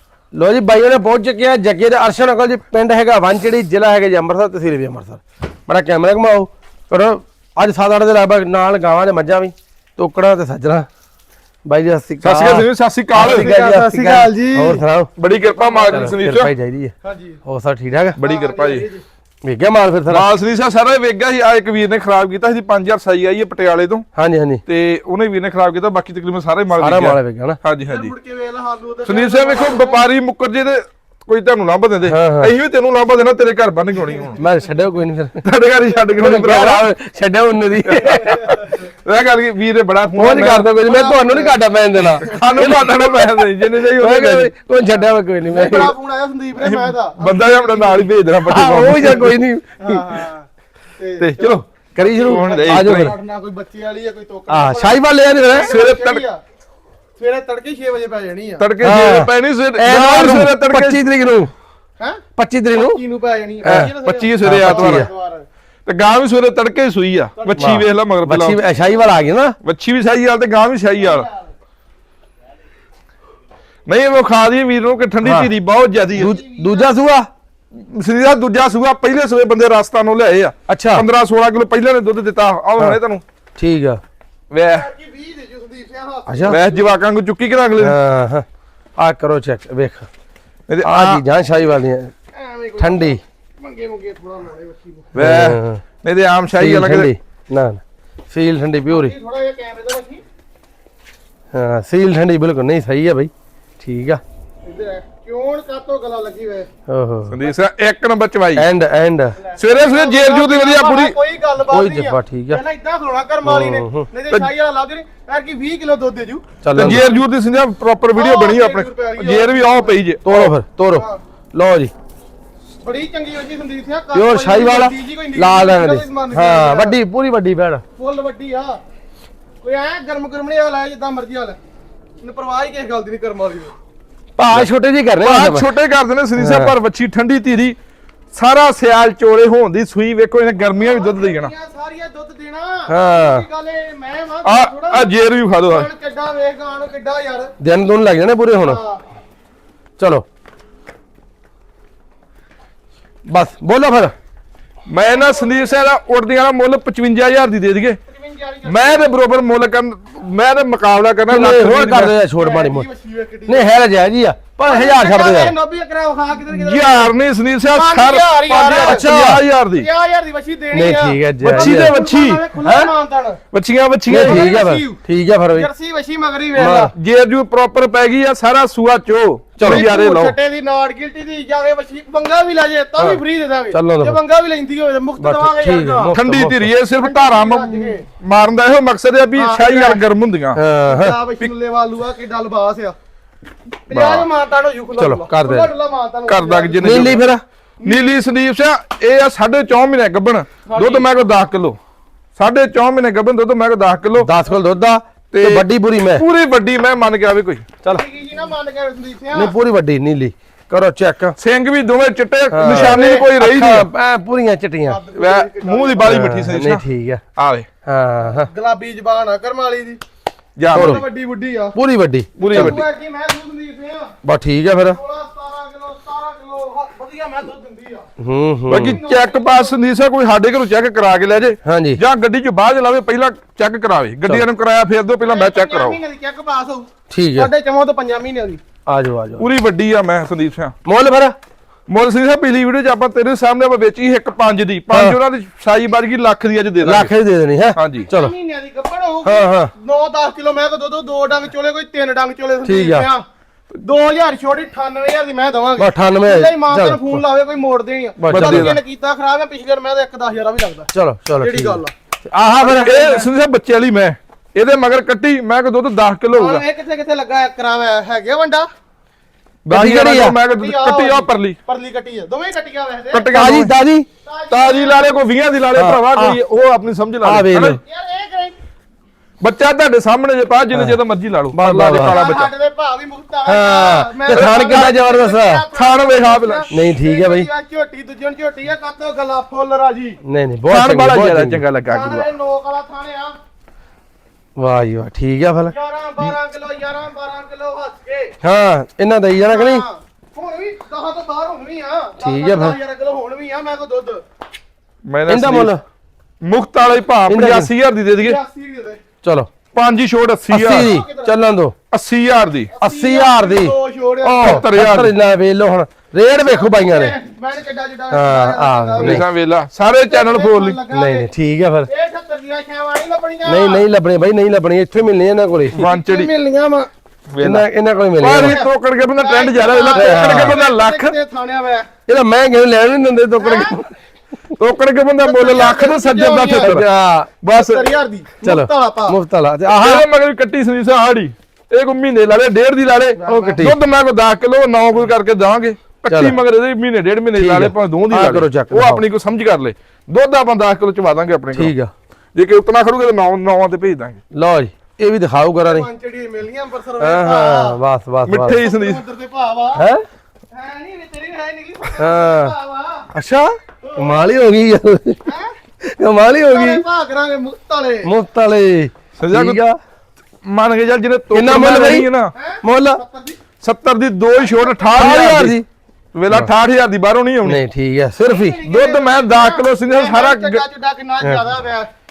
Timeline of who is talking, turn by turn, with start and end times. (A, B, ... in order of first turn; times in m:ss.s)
0:00.3-0:10.9 A
0:11.6-0:15.1 A
0:12.2-0:13.5 B
0:13.2-0:14.8 C
0:15.2-0:16.5 B
0:15.4-0:16.1 C
0:15.9-0:16.9 A
0:17.0-0:17.4 C
0:17.4-0:18.2 A
0:18.2-0:18.8 B
0:18.2-0:19.0 C
0:19.4-0:20.2 A
0:20.1-0:24.0 B
0:24.1-0:24.6 A
0:24.6-0:28.1 B
0:26.8-0:27.6 A
0:27.8-0:30.0 C
0:29.0-0:34.4 B
0:32.1-0:32.5 A
0:34.4-0:35.4 A
0:35.4-0:36.9 B
0:36.2-0:38.5 A
0:37.8-0:40.7 B
0:40.1-0:43.3 A
0:40.8-0:41.6 C
0:42.2-0:42.7 C
0:42.2-0:44.5 B
0:43.8-0:45.9 A
0:45.5-0:48.1 C
0:46.6-0:49.4 B
0:48.4-0:50.0 A
0:49.8-0:56.4 C
0:51.2-0:53.1 B
0:51.9-0:53.1 A
0:54.5-0:55.7 A
0:55.5-0:56.2 B
0:57.2-0:58.7 C
0:58.6-1:01.0 B
0:58.8-1:01.5 A
1:02.4-1:03.0 A
1:02.7-1:05.5 C
1:03.6-1:03.9 A
1:03.6-1:05.1 B
1:04.4-1:05.1 A
1:05.8-1:08.6 B
1:07.4-1:07.7 C
1:07.6-1:09.5 A
1:09.6-1:11.3 B
1:11.0-1:11.5 C
1:13.9-1:16.3 B
1:15.2-1:15.5 A
1:16.1-1:16.9 C
1:16.2-1:17.3 A
1:17.7-1:23.2 B
1:20.7-1:21.0 A
1:23.6-1:24.0 A
1:24.5-1:24.9 B
1:24.7-1:26.9 C
1:26.3-1:26.6 A
1:26.5-1:28.0 B
1:27.8-1:28.4 A
1:29.0-1:30.1 A
1:30.7-1:31.2 B
1:30.8-1:32.1 A
1:32.3-1:35.1 C
1:32.8-1:33.2 A
1:35.1-1:37.1 B
1:35.2-1:35.8 A
1:36.6-1:39.1 A
1:38.9-1:40.2 C
1:41.5-1:44.2 A
1:44.6-1:46.7 C
1:46.9-1:47.4 A
1:47.3-1:48.6 B
1:48.6-1:49.4 A
1:49.4-1:57.2 C
1:49.6-1:51.1 B
1:51.7-1:52.6 A
1:53.4-1:54.0 A
1:56.6-1:57.0 A
1:56.7-2:00.5 B
1:58.1-2:00.0 C
2:00.2-2:01.9 A
2:00.9-2:01.2 C
2:02.8-2:07.0 C
2:04.1-2:07.8 A
2:08.0-2:08.8 C
2:09.6-2:11.6 C
2:12.2-2:13.7 C
2:14.4-2:15.7 A
2:15.2-2:17.8 B
2:16.4-2:16.7 A
2:18.3-2:21.5 B
2:20.8-2:27.5 C
2:22.9-2:23.4 A
2:24.4-2:25.9 B
2:27.6-2:28.8 A
2:28.6-2:29.0 C
2:30.0-2:30.2 A
2:33.3-2:34.1 A
2:34.9-2:38.0 B
2:35.0-2:35.7 C
2:38.1-2:39.1 C
2:38.6-2:42.1 B
2:41.3-2:42.9 A
2:42.4-2:43.7 C
2:43.5-2:45.5 A
2:44.6-2:47.1 C
2:46.5-2:49.9 B
2:47.7-2:53.4 C
2:48.7-2:49.4 A
2:50.7-2:52.0 A
2:51.4-2:52.5 B
2:53.5-2:54.5 B
2:54.1-2:55.7 A
2:54.1-2:55.0 C
2:55.5-2:56.9 C
2:56.6-2:56.9 A
2:56.9-3:00.3 B
2:59.6-2:59.9 A
2:59.6-3:06.1 C
3:03.7-3:04.2 A
3:05.2-3:06.7 A
3:06.1-3:10.6 B
3:07.0-3:08.0 C
3:09.4-3:10.0 C
3:10.5-3:11.2 A
3:10.8-3:13.0 C
3:13.9-3:17.2 C
3:13.9-3:14.2 B
3:15.0-3:15.7 A
3:16.3-3:17.2 B
3:16.8-3:17.4 A
3:17.8-3:18.1 C
3:17.8-3:21.8 B
3:20.6-3:21.1 C
3:22.4-3:24.3 B
3:24.2-3:26.2 A
3:25.3-3:27.6 B
3:27.8-3:29.5 C
3:29.3-3:31.4 A
3:31.4-3:33.9 B
3:32.5-3:35.0 A
3:32.6-3:33.3 C
3:34.9-3:36.3 C
3:35.1-3:36.8 B
3:36.0-3:37.2 A
3:37.4-3:37.7 B
3:37.8-3:38.5 A
3:38.4-3:40.0 C
3:40.6-3:41.0 B
3:40.7-3:41.0 A
3:40.7-3:41.8 C
3:41.7-3:42.8 A
3:42.4-3:44.1 C
3:42.4-3:42.8 B
3:44.2-3:45.0 A
3:44.9-3:48.1 C
3:48.2-3:49.0 A
3:48.7-3:56.0 B
3:48.7-3:49.7 C
3:51.6-3:52.0 A
3:55.2-3:58.6 C
3:57.1-3:57.5 A
3:58.8-3:59.5 A
3:59.4-4:00.7 B
4:00.8-4:01.4 A
4:01.9-4:07.1 B
4:04.9-4:05.2 A
4:06.8-4:08.3 A
4:07.8-4:08.1 B
4:08.0-4:21.9 C
4:09.2-4:09.7 A
4:12.6-4:13.1 A
4:15.8-4:17.2 A
4:18.2-4:18.7 A
4:18.3-4:18.8 B
4:20.9-4:22.9 A
4:22.6-4:23.3 C
4:22.7-4:26.6 B
4:26.3-4:28.7 C
4:29.6-4:31.6 B
4:29.7-4:30.4 A
4:30.6-4:33.3 C
4:33.1-4:33.7 B
4:33.3-4:34.1 A
4:34.2-4:35.1 C
4:34.5-4:37.8 B
4:35.7-4:36.4 A
4:37.2-4:37.8 A
4:37.8-4:38.6 C
4:39.4-4:42.5 B
4:41.5-4:42.2 A
4:42.0-4:50.2 C
4:43.4-4:45.6 A
4:44.3-4:45.0 B
4:45.7-4:46.7 B
4:46.7-4:47.5 A
4:50.2-4:51.6 A
4:50.7-4:52.3 B
4:51.8-4:53.4 C
4:54.6-4:55.7 A
4:55.7-4:58.3 C
4:58.4-4:59.8 A
4:59.4-5:04.2 C
5:02.2-5:02.8 A
5:05.0-5:05.7 B
5:05.3-5:05.8 A
5:06.4-5:08.4 B
5:07.3-5:07.7 A
5:08.2-5:09.0 C
5:09.2-5:09.5 A
5:09.7-5:10.9 B
5:10.5-5:11.8 A
5:10.8-5:11.3 C
5:11.9-5:12.7 B
5:12.7-5:14.6 C
5:12.8-5:17.1 A
5:14.4-5:15.1 B
5:16.4-5:19.2 C
5:18.1-5:19.2 A
5:19.0-5:20.8 B
5:20.0-5:21.3 C
5:20.9-5:21.9 A
5:21.9-5:23.8 C
5:23.4-5:25.8 A
5:25.7-5:26.3 B
5:25.8-5:26.9 C
5:27.3-5:27.6 B
5:27.4-5:28.6 A
5:28.2-5:31.1 B
5:28.3-5:31.9 C
5:29.9-5:30.6 A
5:32.1-5:33.9 A
5:33.4-5:33.8 C
5:34.6-5:36.9 B
5:35.2-5:36.8 C
5:36.6-5:37.3 A
5:37.4-5:37.9 B
5:37.5-5:39.2 C
5:38.4-5:40.0 A
5:39.7-5:51.7 B
5:43.2-5:43.6 C
5:43.3-5:43.8 A
5:46.1-5:46.4 A
5:47.3-5:49.0 A
5:51.5-5:51.9 A
5:52.3-5:54.2 B
5:54.3-5:55.9 A
5:55.6-5:57.8 C
5:57.0-5:58.6 A
5:58.2-5:59.0 B
5:58.4-5:59.8 C
5:59.8-6:00.0 A
6:00.5-6:03.1 C
6:02.0-6:02.5 A
6:03.1-6:05.2 A
6:03.8-6:04.2 C
6:05.2-6:05.5 C
6:05.8-6:06.8 A
6:06.5-6:08.1 C
6:08.0-6:09.8 A
6:09.2-6:09.6 B
6:10.4-6:12.3 B
6:11.3-6:12.1 A
6:12.3-6:13.4 C
6:12.6-6:13.0 A
6:13.6-6:15.6 B
6:14.4-6:15.3 C
6:15.0-6:15.6 A
6:16.1-6:17.6 B
6:17.4-6:18.5 A
6:18.2-6:21.9 C
6:18.3-6:20.6 B